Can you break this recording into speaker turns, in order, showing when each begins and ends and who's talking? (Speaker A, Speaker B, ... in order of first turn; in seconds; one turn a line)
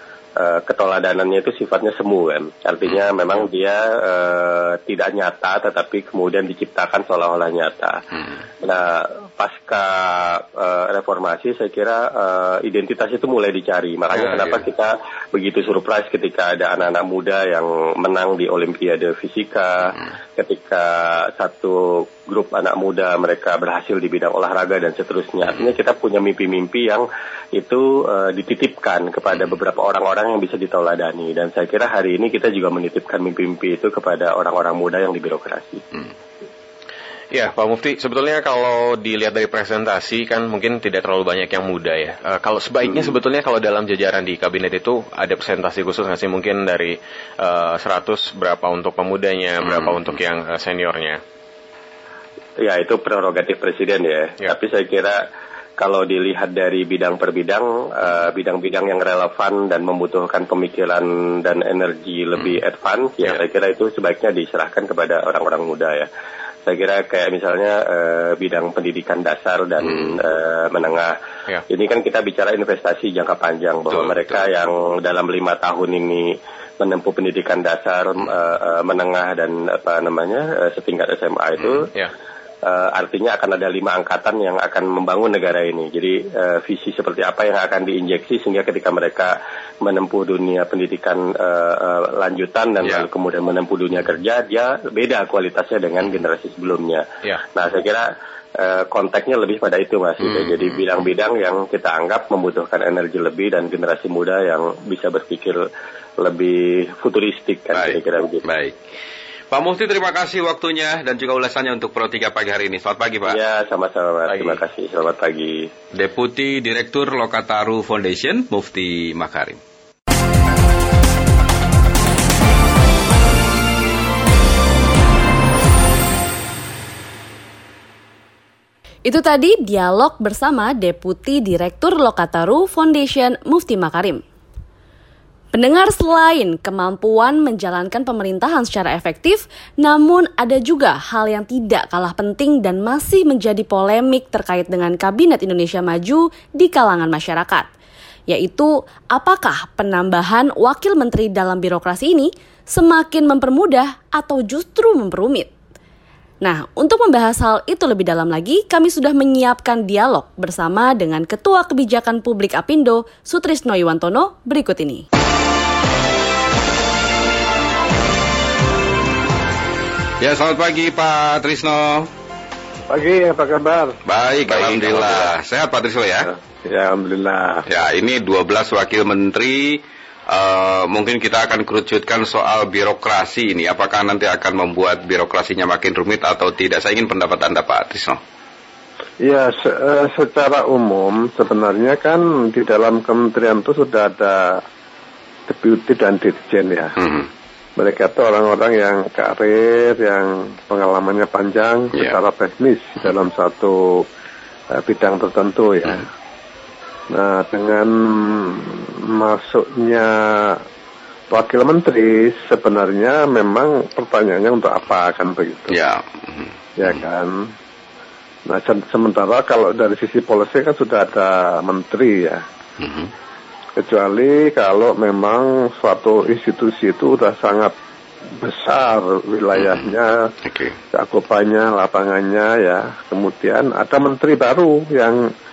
Speaker A: 0.4-8.0
Speaker A: 8.6-35.8
Speaker B: 14.1-14.6
Speaker C: 37.3-51.2
Speaker A: 52.6-55.2
Speaker A: 55.8-66.1
Speaker A: 66.7-71.2
Speaker B: 69.8-70.2
Speaker A: 71.7-81.9
Speaker B: 73.9-74.5
Speaker A: 82.6-105.6
Speaker B: 100.2-100.8
Speaker A: 106.2-108.4
Speaker B: 107.7-108.8
Speaker B: 109.5-113.4
Speaker A: 113.3-115.7
Speaker C: 114.3-114.6
Speaker B: 115.9-119.6
Speaker D: 129.1-134.2
Speaker D: 135.5-147.7
Speaker D: 148.3-155.5
Speaker D: 156.4-165.1
Speaker B: 170.2-172.1
Speaker E: 172.9-175.1
Speaker B: 174.1-176.3
Speaker E: 176.3-177.7
Speaker B: 177.7-188.2
Speaker E: 189.2-194.6
Speaker E: 195.5-197.0
Speaker B: 197.0-197.3
Speaker E: 197.8-204.1
Speaker E: 204.7-206.1
Speaker E: 207.1-210.6
Speaker E: 211.3-215.8
Speaker B: 215.7-217.0
Speaker E: 216.8-217.5
Speaker E: 218.5-222.4
Speaker B: 222.8-223.1
Speaker E: 223.8-227.7
Speaker E: 228.4-230.3
Speaker B: 229.6-229.9
Speaker B: 230.5-230.8
Speaker E: 230.9-235.3